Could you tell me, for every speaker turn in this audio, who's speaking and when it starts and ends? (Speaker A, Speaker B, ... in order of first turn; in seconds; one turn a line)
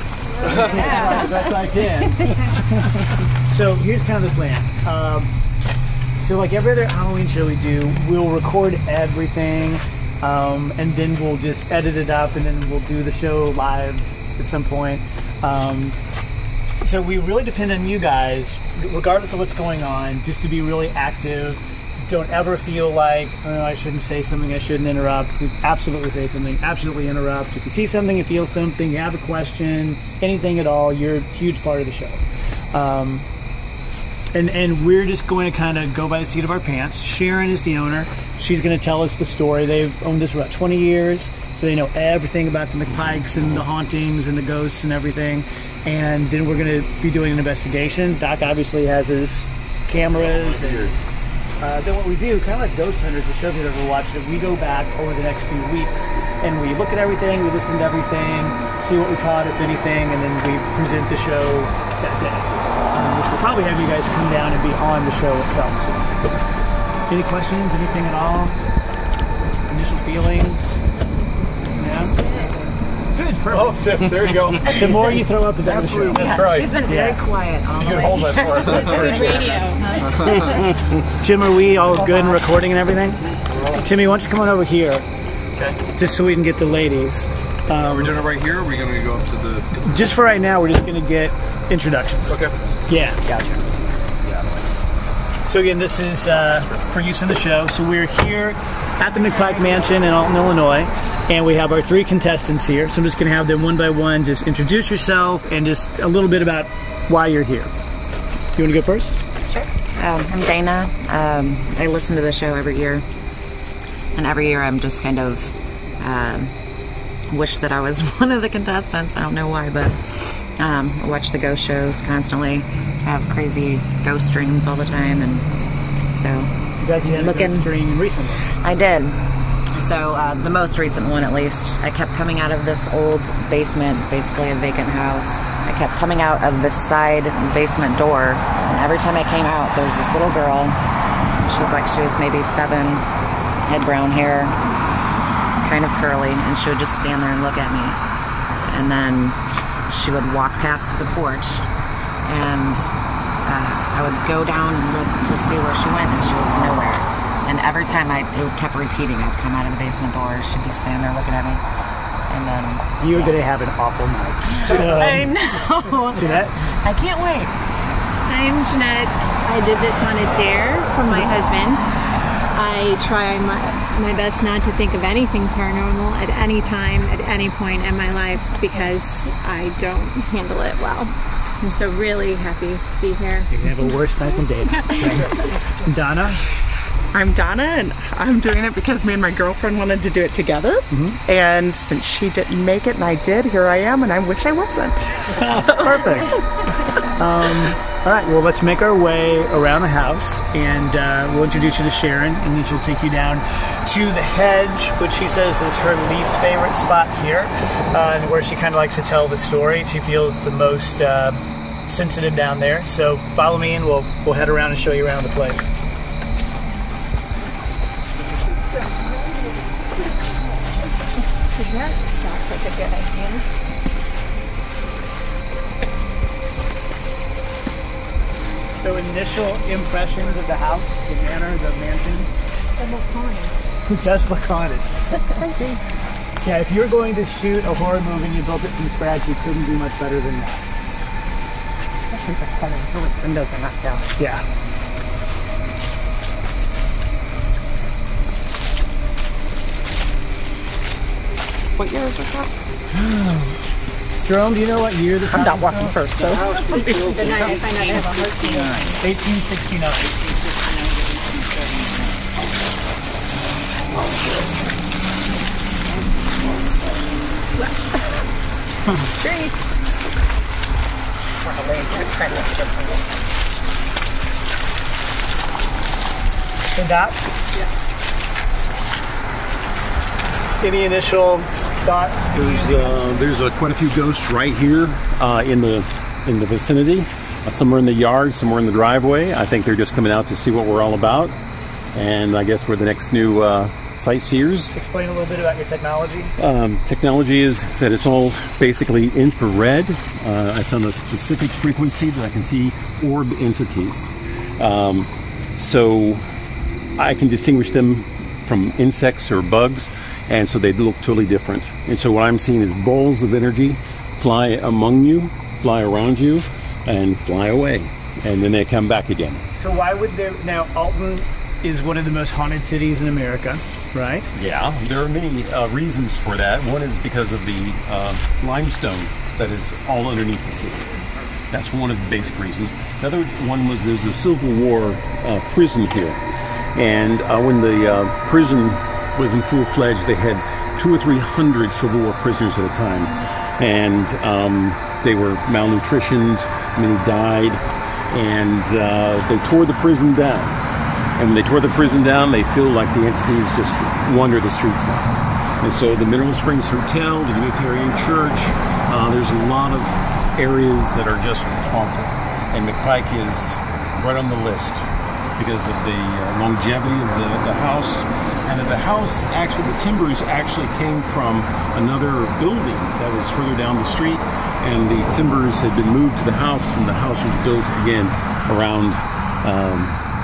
Speaker A: 0.3-5.3
Speaker B: 0.4-1.2
Speaker A: 6.2-16.0
Speaker A: 16.8-32.2
Speaker A: 32.7-33.2
Speaker A: 34.3-50.9
Speaker C: 50.2-50.9
Speaker A: 51.6-66.0
Speaker A: 67.1-68.6
Speaker A: 69.7-70.8
Speaker A: 71.8-72.2
Speaker B: 72.2-72.5
Speaker D: 73.2-75.0
Speaker A: 73.2-73.7
Speaker A: 74.6-77.2
Speaker D: 75.7-76.7
Speaker B: 76.0-80.4
Speaker D: 77.8-79.4
Speaker E: 78.6-80.4
Speaker D: 80.2-80.6
Speaker A: 81.2-85.0
Speaker A: 85.8-88.2
Speaker D: 87.9-89.7
Speaker A: 89.7-93.2
Speaker D: 92.3-92.5
Speaker D: 93.3-93.6
Speaker A: 95.4-107.7
Speaker A: 108.5-109.2
Speaker B: 109.4-113.0
Speaker B: 114.1-116.5
Speaker B: 117.3-125.5
Speaker B: 126.1-127.8
Speaker A: 126.8-128.5
Speaker B: 128.6-129.2
Speaker B: 129.7-140.8
Speaker B: 141.5-143.1
Speaker B: 143.7-144.6
Speaker B: 145.6-148.0
Speaker B: 148.7-151.7
Speaker B: 152.3-152.9
Speaker B: 153.4-161.6
Speaker B: 162.3-163.0
Speaker A: 163.0-165.3
Speaker B: 164.5-167.5
Speaker A: 166.2-166.7
Speaker E: 168.3-171.8
Speaker E: 172.5-183.5
Speaker A: 183.5-186.4
Speaker E: 184.7-185.4
Speaker F: 187.1-196.1
Speaker A: 190.9-191.2
Speaker A: 195.3-196.4
Speaker A: 197.0-215.7
Speaker E: 219.0-219.3
Speaker E: 221.5-223.4
Speaker A: 228.8-232.3
Speaker E: 232.7-233.5
Speaker A: 233.9-235.2
Speaker A: 236.4-240.6
Speaker F: 242.1-243.1
Speaker B: 242.1-244.0
Speaker A: 244.2-244.4
Speaker B: 251.8-252.5
Speaker F: 251.9-252.3
Speaker A: 252.9-253.5
Speaker A: 254.3-255.9
Speaker B: 255.3-259.0
Speaker D: 256.3-257.4
Speaker E: 256.4-258.8
Speaker A: 259.0-260.1
Speaker B: 260.1-262.1
Speaker B: 265.9-267.0
Speaker E: 267.6-268.0
Speaker E: 269.2-269.5
Speaker B: 271.4-273.0
Speaker A: 276.7-277.2
Speaker A: 280.6-283.0
Speaker C: 282.3-291.3
Speaker C: 291.9-294.8
Speaker A: 294.7-296.3
Speaker C: 296.4-306.2
Speaker C: 307.0-319.4
Speaker A: 319.6-324.3
Speaker C: 324.3-330.9
Speaker C: 331.5-336.2
Speaker C: 336.8-350.6
Speaker C: 351.2-380.0